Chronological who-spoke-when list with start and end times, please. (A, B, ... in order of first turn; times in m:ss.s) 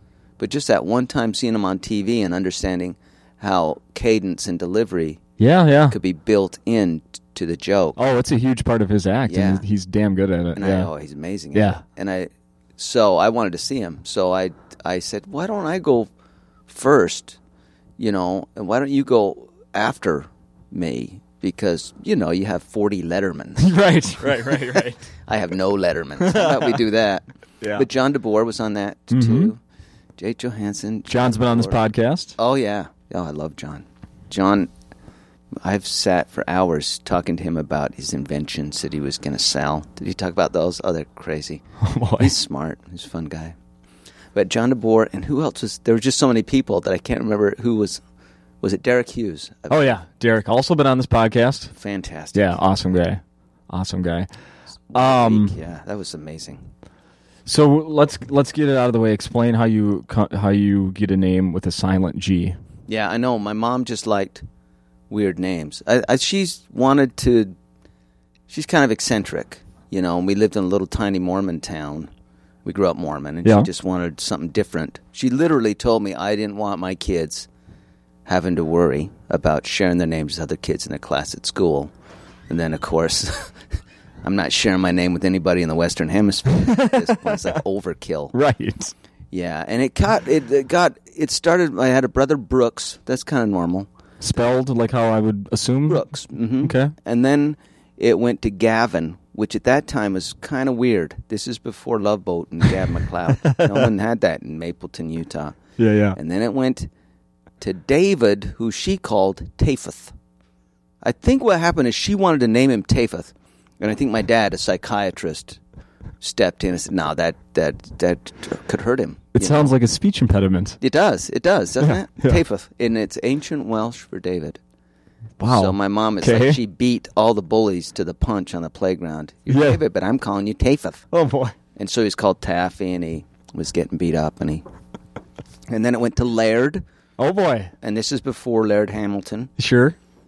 0:00.4-0:05.2 A
0:05.4-0:06.0 B
0:05.9-0:08.0 A
0:08.0-0:10.9 B
0:09.3-0:09.6 A
0:10.6-0:16.1 A
0:11.5-0:11.8 B
0:16.7-0:17.4 A
0:18.0-0:29.6 A
0:23.6-0:25.0 B
0:26.2-0:26.8 B
0:27.6-0:27.8 B
0:29.1-0:29.5 B
0:30.2-0:31.8 A
0:31.1-0:32.4 B
0:32.4-0:34.7 A
0:35.6-0:41.6 A
0:41.8-0:42.3 B
0:42.2-0:43.6 A
0:44.3-0:48.0 A
0:48.6-0:50.0 A
0:49.7-0:51.7 B
0:51.7-0:52.6 A
0:52.3-0:54.3 B
0:54.9-0:56.6 A
0:54.9-0:55.5 B
0:57.4-1:02.6 B
1:02.9-1:04.4 A
1:05.1-1:07.5 A
1:08.5-1:12.1 A
1:12.6-1:17.5 A
1:18.2-1:21.9 A
1:22.5-1:23.5 A
1:24.2-1:28.3 A
1:26.5-1:27.6 B
1:28.3-1:28.9 B
1:29.3-1:33.9 A
1:34.2-1:36.0 B
1:35.9-1:45.6 A
1:36.6-1:36.9 B
1:43.4-1:43.9 B
1:45.8-1:46.2 B
1:46.1-1:46.9 A
1:47.6-1:50.1 A
1:51.0-1:55.6 A
1:56.2-1:59.7 A
1:59.3-2:00.8 B
2:00.8-2:04.6 A
2:01.8-2:02.4 B
2:05.4-2:06.6 B
2:05.4-2:11.1 A
2:09.5-2:09.8 B
2:11.1-2:11.6 B
2:11.8-2:14.6 A
2:15.7-2:16.8 A
2:17.2-2:17.7 B
2:17.8-2:19.5 A
2:19.6-2:20.0 B